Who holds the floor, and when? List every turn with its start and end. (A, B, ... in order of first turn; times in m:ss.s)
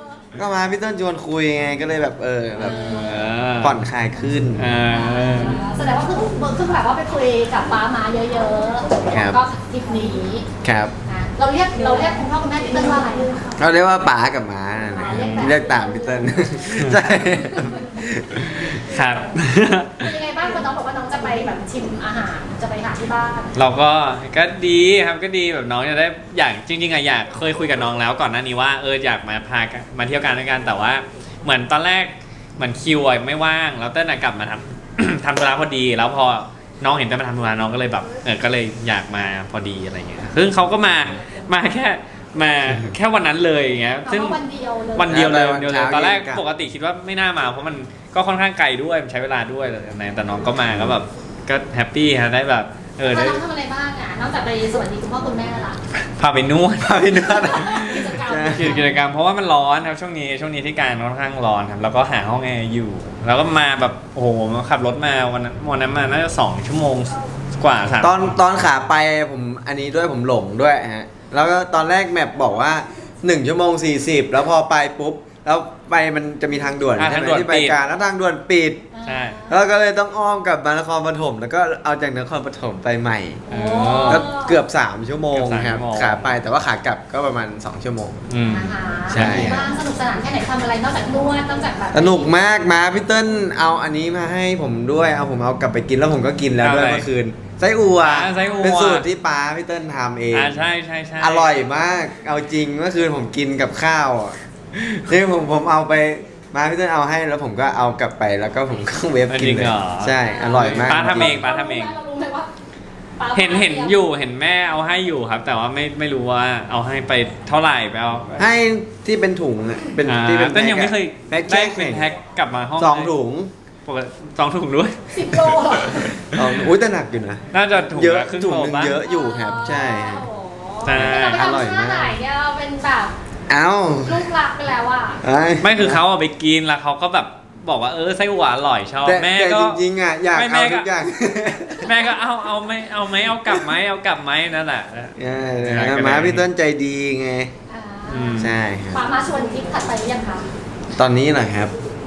0:00.4-0:02.9 A
0:02.6-0:03.3 B
0:02.6-0:03.8 C
0:03.6-0:04.7 A
0:04.6-0:05.6 C
0:04.9-0:10.5 B
0:09.1-0:09.4 A
0:10.6-0:10.9 A
0:11.1-0:13.6 B
0:13.6-0:18.8 A
0:14.9-0:15.7 B
0:15.0-0:15.5 C
0:18.4-0:20.1 C
0:20.0-0:23.6 B
0:23.6-0:44.4 C
0:44.0-0:45.3 B
0:45.0-0:53.4 C
0:45.1-0:46.4 A
0:50.7-0:51.0 A
0:53.1-0:55.8 B
0:56.2-0:58.0 C
0:56.8-0:58.8 A
0:57.3-0:59.0 B
0:58.5-1:08.3 C
1:08.0-1:18.9 A
1:17.0-1:17.8 C
1:18.9-1:19.6 B
1:19.0-1:19.4 C
1:19.5-1:23.4 A
1:23.5-1:24.6 B
1:23.5-1:24.2 C
1:24.0-1:28.2 A
1:25.3-1:26.3 C
1:28.3-1:29.7 C
1:28.5-1:32.3 B
1:29.1-1:29.6 A
1:31.9-1:40.6 A
1:36.6-1:37.1 C
1:38.0-1:39.0 C
1:40.3-1:41.5 C
1:41.2-1:44.4 A
1:45.0-1:51.4 A
1:49.3-1:51.9 C
1:50.2-1:52.5 B
1:53.2-1:54.0 B
1:53.3-1:58.5 C
1:58.4-2:02.1 A
2:00.0-2:03.1 C
2:02.8-2:03.5 A
2:03.8-2:06.6 C
2:05.1-2:06.2 B
2:06.3-2:10.3 A
2:07.5-2:09.0 C
2:09.0-2:13.1 B
2:10.8-2:11.4 C
2:10.9-2:12.1 A
2:13.5-2:14.2 A
2:14.0-2:15.2 B
2:15.2-2:16.0 A
2:15.6-2:19.8 C
2:19.0-2:21.9 A
2:20.3-2:20.9 C
2:21.8-2:26.4 C
2:25.2-2:27.5 A
2:27.7-2:30.4 B
2:28.1-2:28.5 C
2:28.4-2:29.0 A
2:30.9-2:31.7 A